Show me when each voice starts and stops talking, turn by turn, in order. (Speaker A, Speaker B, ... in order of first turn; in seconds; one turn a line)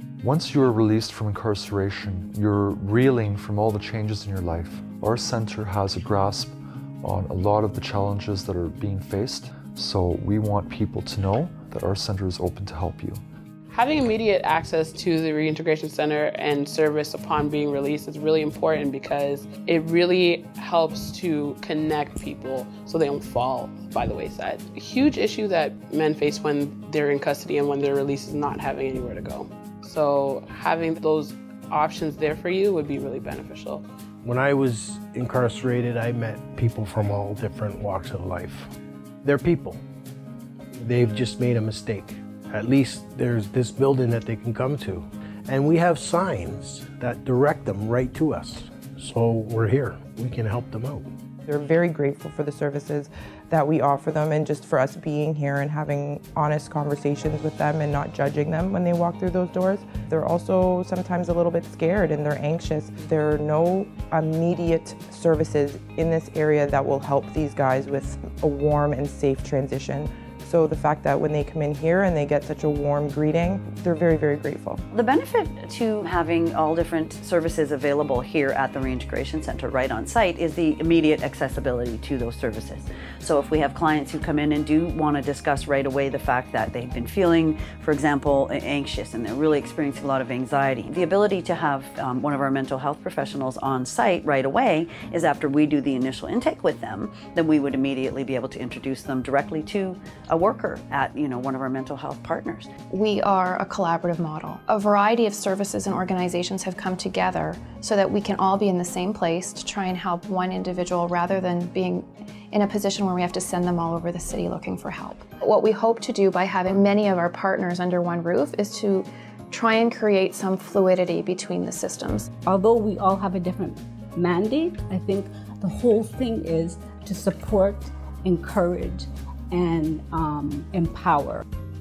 Speaker A: 0.2-13.2
Speaker B: 13.7-33.8
Speaker C: 34.2-38.7
Speaker C: 39.2-39.8
Speaker C: 40.8-51.1
Speaker D: 51.5-74.8
Speaker E: 74.9-102.7
Speaker F: 102.9-122.3
Speaker G: 122.4-131.4